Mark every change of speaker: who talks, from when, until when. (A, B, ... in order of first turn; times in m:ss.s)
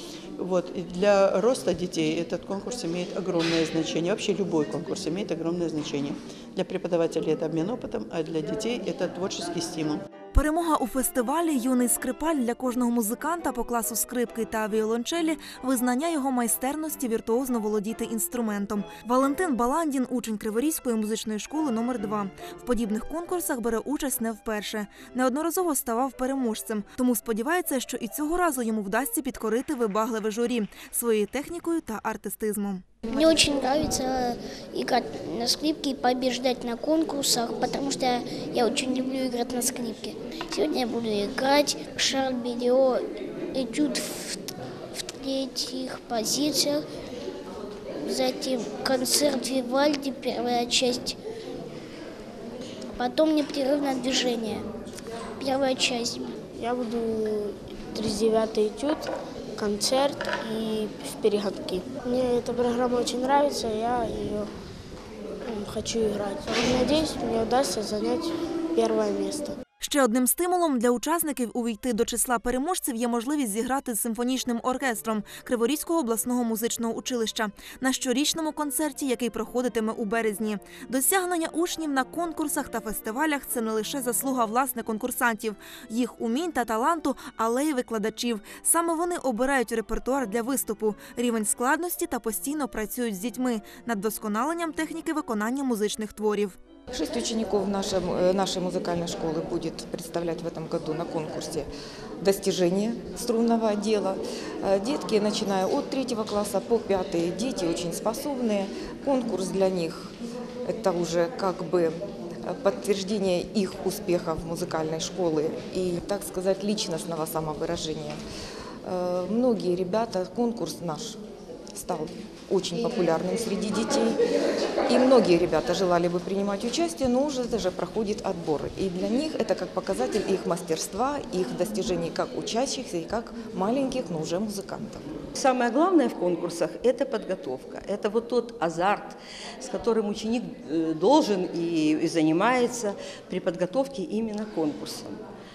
0:00.4-0:10.0 A
0:10.3-0:32.8 B
0:33.1-0:43.0 C
0:43.5-0:46.8 C
0:48.0-0:51.2 C
0:52.9-0:54.7 C
0:55.4-0:56.4 C
0:56.6-1:04.5 D
1:05.4-1:09.6 D
1:09.8-1:36.6 B
1:36.9-1:41.7 E
1:42.2-1:50.1 E
1:50.7-1:58.2 E
1:58.8-2:01.2 E
2:01.7-2:04.2 E
2:04.9-2:15.0 E
2:15.4-2:25.2 F